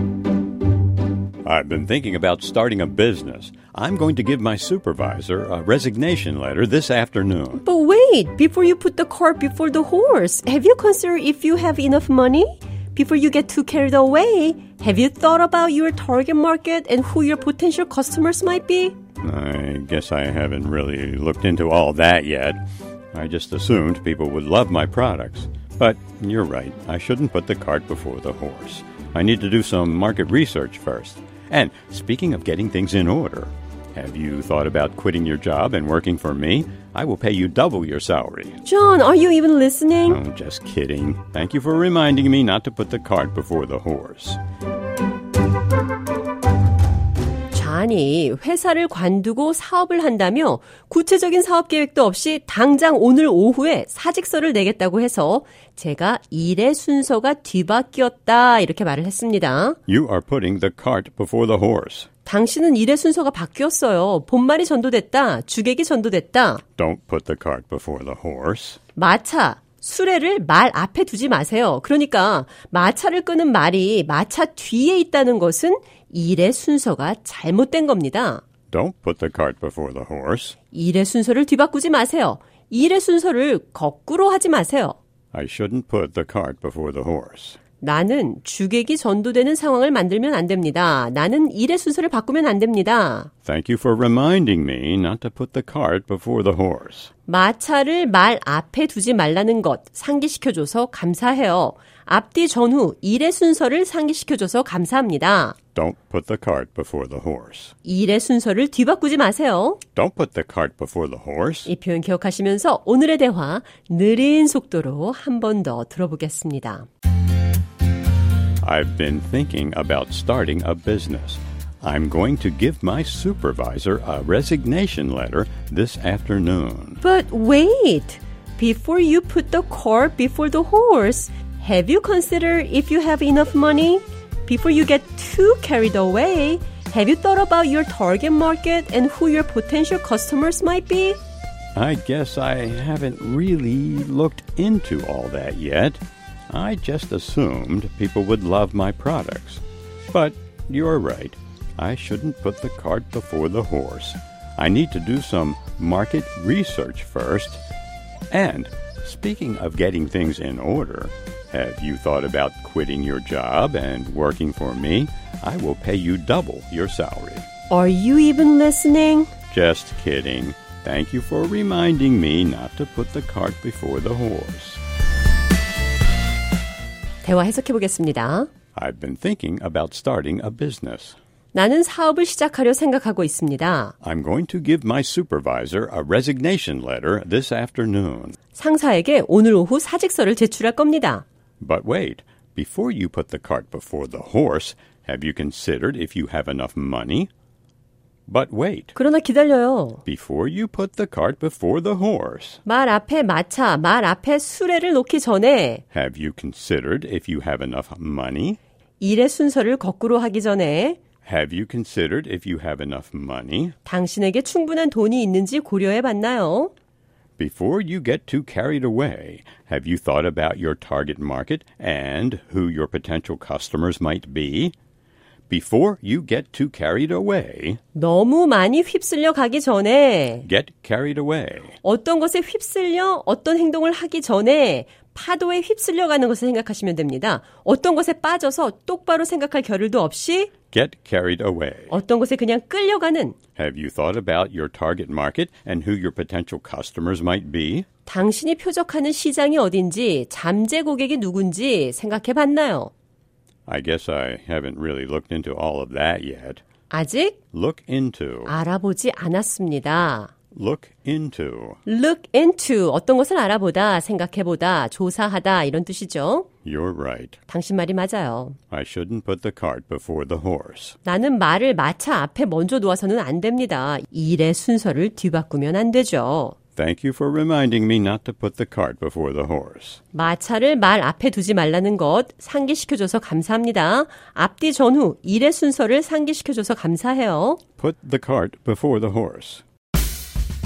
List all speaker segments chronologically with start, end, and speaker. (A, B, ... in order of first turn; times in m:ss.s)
0:01.4-0:07.6 A
0:07.5-0:19.0 B
0:19.2-0:22.6 A
0:23.1-0:38.6 A
0:38.6-0:40.2 B
0:40.1-0:44.4 A
0:47.5-0:59.8 B
0:59.9-1:02.1 A
1:02.2-1:06.6 B
1:06.8-1:08.8 A
1:09.0-1:18.4 B
1:18.7-1:20.6 A
1:20.7-1:25.0 B
1:25.3-1:27.6 A
1:27.8-1:33.3 B
1:33.4-1:37.1 A
1:37.3-1:45.6 B
1:45.7-1:47.7 A
1:47.8-1:49.8 B
1:50.0-1:51.7 A
1:51.6-1:56.9 B
1:58.6-2:07.0 A
2:07.0-2:21.2 B
2:21.7-2:37.6 A
2:38.3-2:47.5 A
2:47.7-2:49.3 B
2:49.5-2:54.8 A
2:57.2-2:58.5 B
2:58.7-3:01.2 A
3:01.5-3:03.9 B
3:04.0-3:08.4 A
3:08.5-3:11.2 B
3:11.6-3:17.3 A
3:18.3-3:18.9 A
3:19.0-3:20.0 B
3:20.0-3:22.6 A
3:22.6-3:25.8 B
3:25.9-3:28.6 A
3:29.0-3:31.0 B
3:31.2-3:33.7 A
3:33.8-3:36.7 B
3:37.4-3:44.7 A
3:45.5-3:47.8 A
3:47.9-3:50.5 B
3:50.4-3:51.8 A
3:51.8-4:00.5 B
4:00.7-4:02.0 A
4:01.9-4:03.4 B
4:03.6-4:07.9 A
4:08.0-4:12.9 B
4:13.7-4:16.6 A
4:16.9-4:17.4 B
4:17.5-4:18.5 A
4:18.4-4:20.3 B
4:20.5-4:21.8 A
4:21.8-4:26.5 B
4:26.6-4:27.4 A
4:27.5-4:28.6 B
4:28.7-4:31.0 A
4:31.0-4:36.6 B
4:36.8-4:40.0 A
4:40.1-4:47.6 B
4:47.8-4:49.6 A